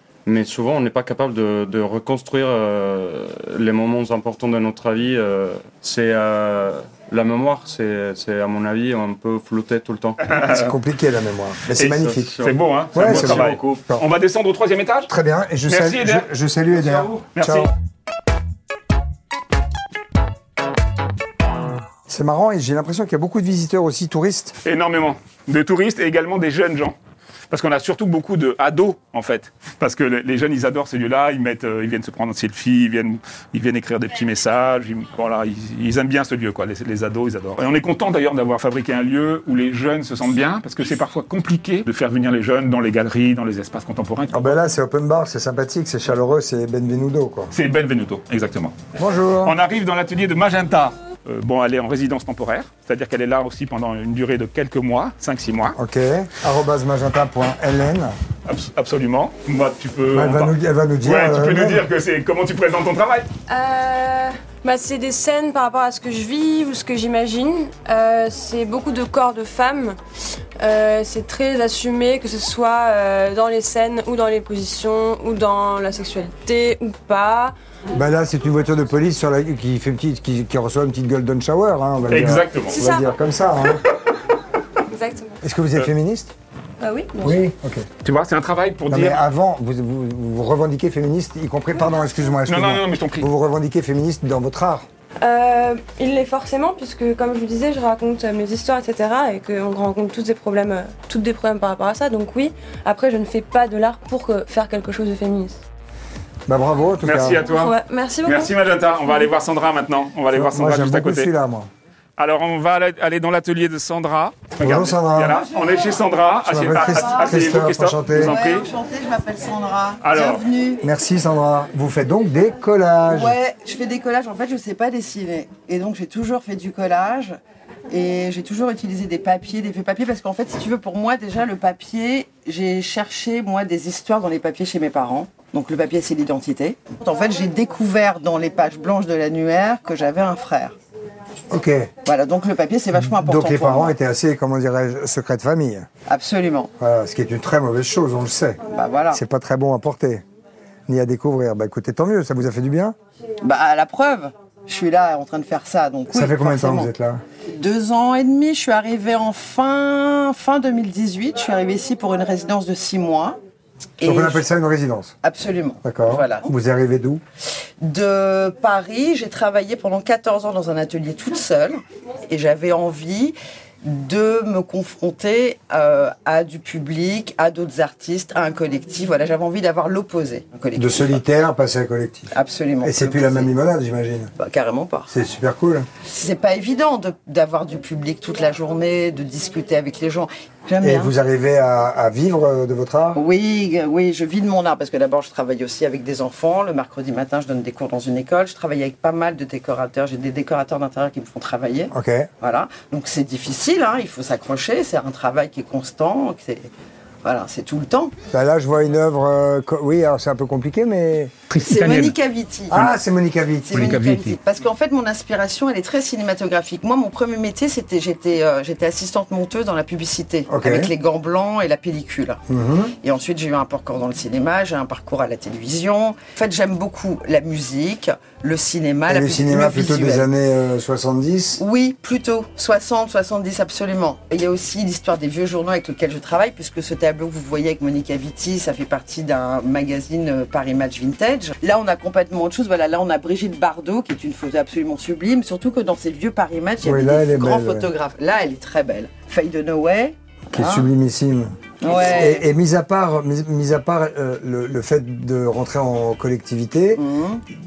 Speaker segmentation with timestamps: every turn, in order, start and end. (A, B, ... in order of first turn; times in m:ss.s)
0:00.3-0:10.2 A
0:10.3-0:10.7 B
0:10.4-0:12.3 C
0:11.8-0:15.1 B
0:11.9-0:13.8 A
0:13.0-0:14.0 C
0:15.1-0:17.7 C
0:15.7-0:16.3 B
0:17.3-0:17.7 B
0:22.1-0:24.6 C
0:24.6-0:27.0 B
0:27.5-0:44.6 B
0:44.3-0:47.5 C
0:47.5-0:48.8 B
0:49.0-0:49.6 C
0:49.4-0:55.8 B
0:55.7-0:58.2 C
0:58.5-1:03.3 B
1:00.1-1:01.8 C
1:03.5-1:10.0 D
1:10.6-1:17.6 D
1:17.9-1:23.8 C
1:22.1-1:22.8 B
1:22.7-1:23.1 D
1:24.8-1:25.4 D
1:25.4-1:26.3 C
1:26.8-1:27.4 D
1:27.2-1:27.9 C
1:28.0-1:29.2 B
1:28.9-1:34.9 C
1:32.5-1:33.3 B
1:35.2-1:45.6 D
1:46.5-1:47.4 C
1:47.0-1:51.3 B
1:47.4-1:48.5 D
1:50.3-1:51.7 C
1:52.2-1:58.7 B
1:54.6-1:55.4 C
1:55.3-1:57.4 E
1:56.4-1:58.4 C
1:58.1-2:00.8 E
2:00.0-2:00.4 B
2:00.8-2:03.4 C
2:03.1-2:07.4 E
2:07.9-2:20.8 E
2:21.5-2:21.9 C
2:22.0-2:24.0 E
2:23.0-2:25.9 C
2:26.1-2:26.7 E
2:26.8-2:30.2 C
2:28.7-2:29.2 E
2:30.9-2:33.0 C
2:33.4-2:36.9 E
2:36.1-2:37.2 C
2:37.5-2:43.4 E
2:44.0-2:44.5 E
2:44.0-2:45.2 C
2:45.2-2:46.5 E
2:45.8-2:47.2 C
2:47.8-3:01.2 E
3:00.8-3:02.3 C
3:02.3-3:03.5 E
3:02.8-3:04.3 C
3:04.4-3:05.1 E
3:05.1-3:05.9 C
3:06.0-3:11.1 E
3:10.8-3:13.2 C
3:13.2-3:26.7 E
3:21.9-3:22.3 C
3:27.2-3:28.1 E
3:28.3-3:31.4 C
3:31.5-3:32.2 B
3:31.6-3:33.0 E
3:32.7-3:34.0 C
3:33.7-3:42.4 E
3:33.8-3:34.4 B
3:40.5-3:40.9 C
3:42.5-3:43.0 C
3:43.0-3:50.3 E
3:49.1-3:51.6 C
3:51.6-4:10.9 E
4:06.8-4:07.9 C
4:10.5-4:17.0 C
4:11.8-4:12.5 E
4:17.0-4:17.4 E